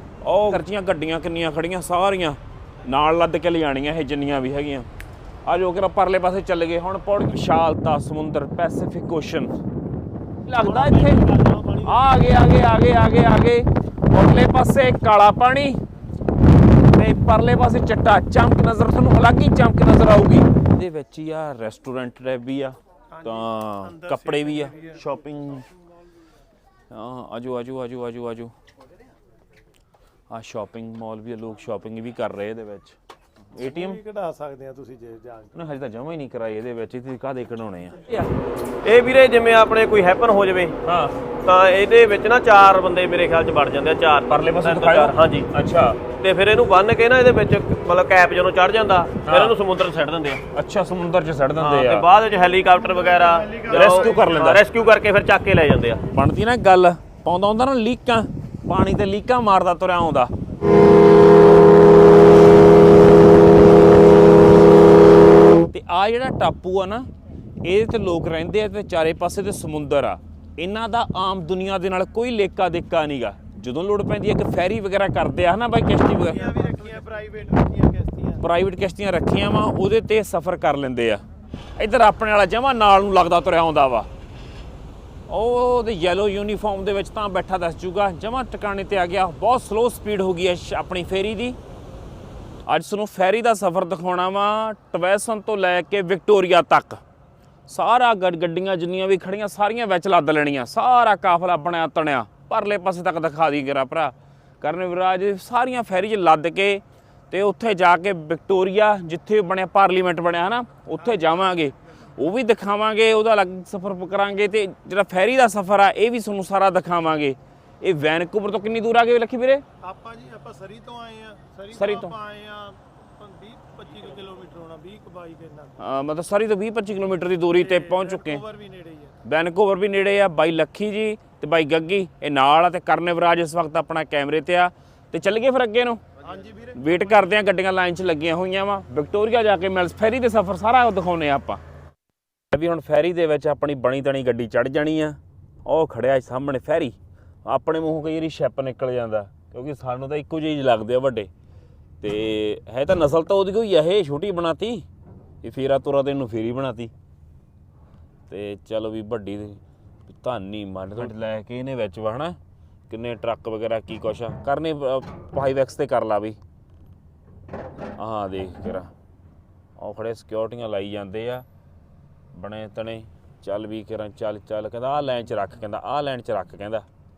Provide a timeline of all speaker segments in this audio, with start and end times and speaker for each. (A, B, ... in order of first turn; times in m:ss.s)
0:00.2-0:04.9 A
0:05.4-0:09.5 A
0:10.4-0:11.2 A
0:10.8-0:11.8 B
0:11.8-0:15.8 A
0:16.8-0:25.7 A
0:23.1-0:25.1 C
0:26.9-0:28.5 A
0:30.3-0:33.0 A
0:33.5-0:34.0 A
0:33.6-0:35.5 C
0:35.5-0:38.3 A
0:38.8-0:40.7 B
0:40.8-0:41.1 A
0:41.4-0:45.5 B
0:44.3-0:46.0 A
0:46.2-0:50.4 B
0:49.2-0:49.6 A
0:50.5-0:52.1 A
0:51.5-0:56.0 B
0:52.8-0:54.5 C
0:53.6-0:54.6 A
0:56.1-1:00.3 A
1:05.7-1:07.1 A
1:07.6-1:16.5 A
1:16.0-1:18.4 C
1:18.4-1:21.2 A
1:21.8-1:24.1 A
1:25.3-1:31.6 A
1:32.7-1:37.0 A
1:37.7-1:59.6 A
1:51.0-1:51.7 C
1:59.8-2:05.8 C
2:01.7-2:02.1 A
2:05.8-2:08.4 A
2:07.5-2:09.2 C
2:09.2-2:16.0 A
2:16.2-2:17.3 C
2:16.7-2:21.6 A
2:22.5-2:31.3 A
2:32.0-2:34.8 A
2:35.4-2:36.9 A
2:38.3-2:42.4 A
2:42.9-2:46.4 A
2:48.0-2:48.9 A
2:49.8-2:51.4 A
2:52.3-2:56.8 A